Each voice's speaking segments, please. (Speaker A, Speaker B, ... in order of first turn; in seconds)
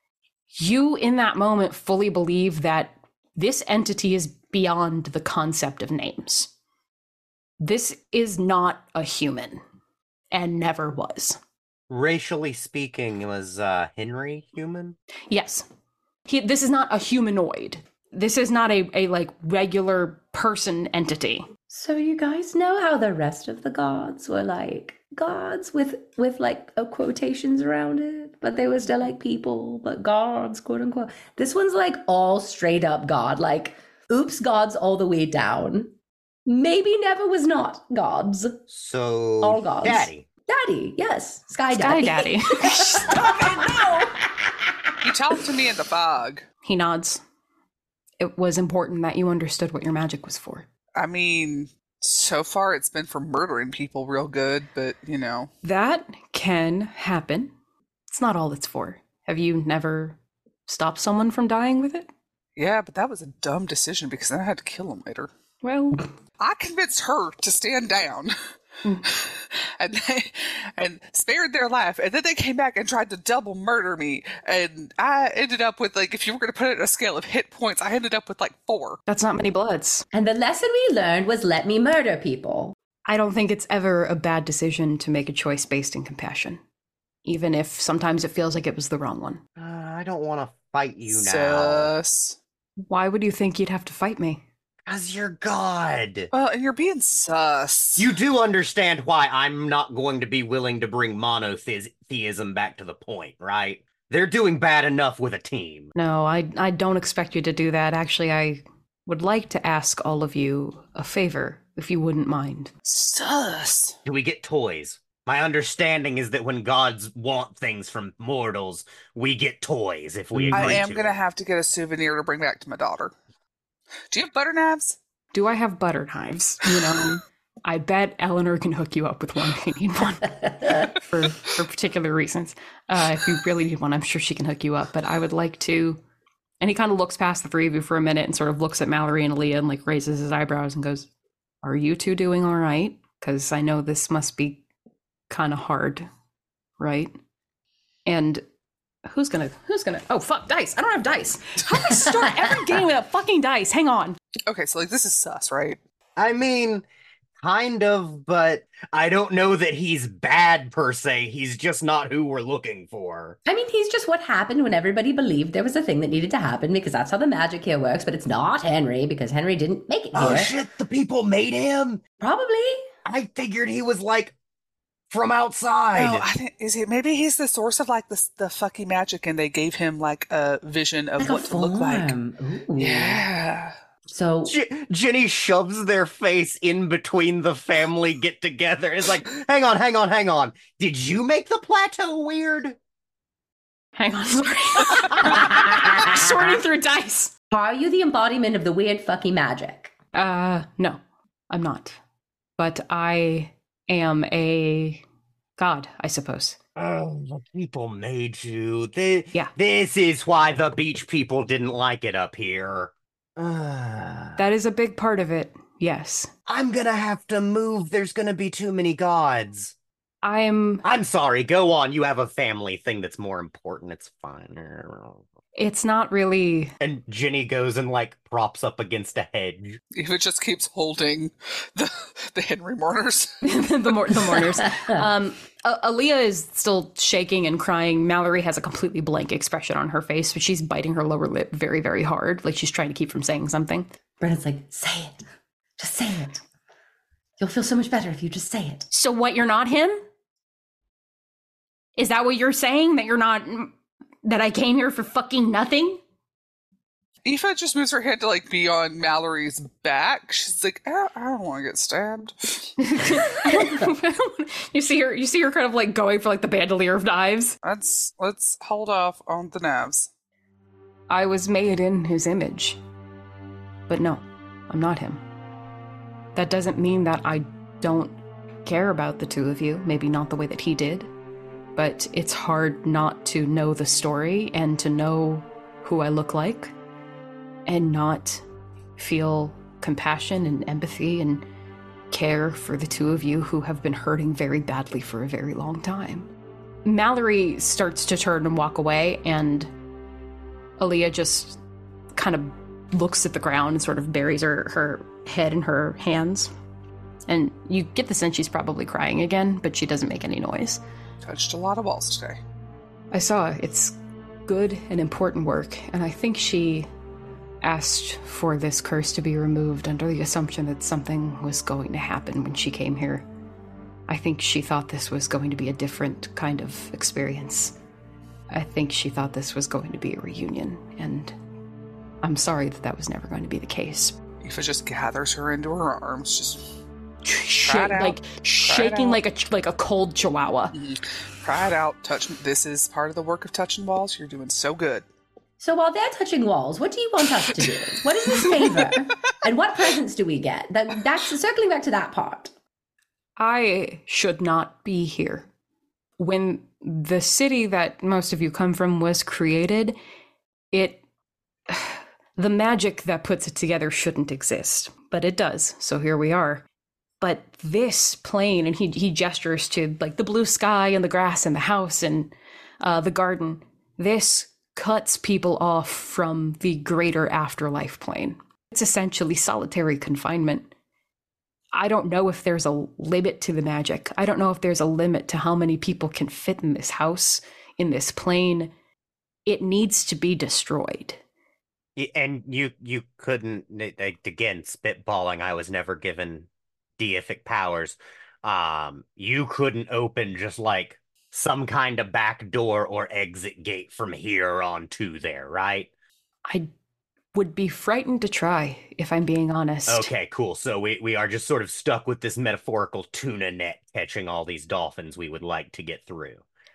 Speaker A: 0.6-6.5, 7.6-9.6, 10.3-11.4, 15.3-15.7, 16.3-21.5, 41.7-43.7, 46.6-47.2, 48.2-50.7, 55.6-57.5, 58.1-62.1, 65.6-66.0, 79.1-80.0, 83.1-86.6, 87.2-89.4, 92.9-94.4, 106.0-112.7, 125.3-136.0, 136.6-141.1, 141.6-144.6, 145.3-146.1, 146.8-147.1, 148.1-148.4, 149.1-154.2, 194.0-197.3, 200.1-201.0, 201.5-202.0, 202.6-205.0, 205.6-206.6, 214.4-216.3, 220.2-220.8, 225.6-226.7, 233.4-243.9, 248.9-250.0, 252.0-253.7, 254.2-256.0, 262.8-267.6, 271.1-272.8, 273.9-275.2, 276.4-281.1, 281.8-286.7, 287.6-288.4, 289.0-291.4, 292.1-296.3, 296.9-299.7, 300.8-301.6, 302.1-306.5, 307.3-310.8, 313.1-314.0, 314.5-316.9, 317.6-323.2, 324.1-327.7, 328.5-331.3, 332.2-334.2, 337.2-340.7, 353.4-355.5, 356.2-360.0, 360.7-361.0, 361.7-366.6, 367.2-380.7, 381.7-388.7, 389.5-391.2, 407.3-410.1
Speaker B: 11.9-15.0, 38.7-40.3, 89.6-91.9, 94.9-96.3, 98.0-105.9, 114.0-121.2, 156.2-156.8, 157.4-163.4, 170.1-172.0, 173.1-174.3, 175.1-176.3, 184.5-192.8, 206.8-214.4, 216.5-219.8, 220.8-225.2, 226.8-229.8, 392.0-405.9, 409.9-416.4
Speaker C: 21.7-35.9, 36.5-38.6, 39.4-44.7, 80.1-82.7, 163.5-170.5, 172.2-172.9, 181.2-183.2, 184.1-184.6, 197.5-199.9, 234.7-235.1, 244.2-245.1, 245.8-246.4, 247.4-248.9, 345.6-352.5
Speaker D: 45.0-46.4, 51.0-55.5, 62.6-65.3, 66.4-68.3, 69.0-79.0, 91.1-92.4, 96.3-98.1, 112.8-114.0, 120.5-123.1, 124.1-125.0, 154.5-155.8, 176.0-182.1, 182.8-183.7, 229.9-233.5, 257.2-263.5, 267.6-270.1, 311.2-312.4, 334.4-336.7, 337.6-339.2, 340.7-345.1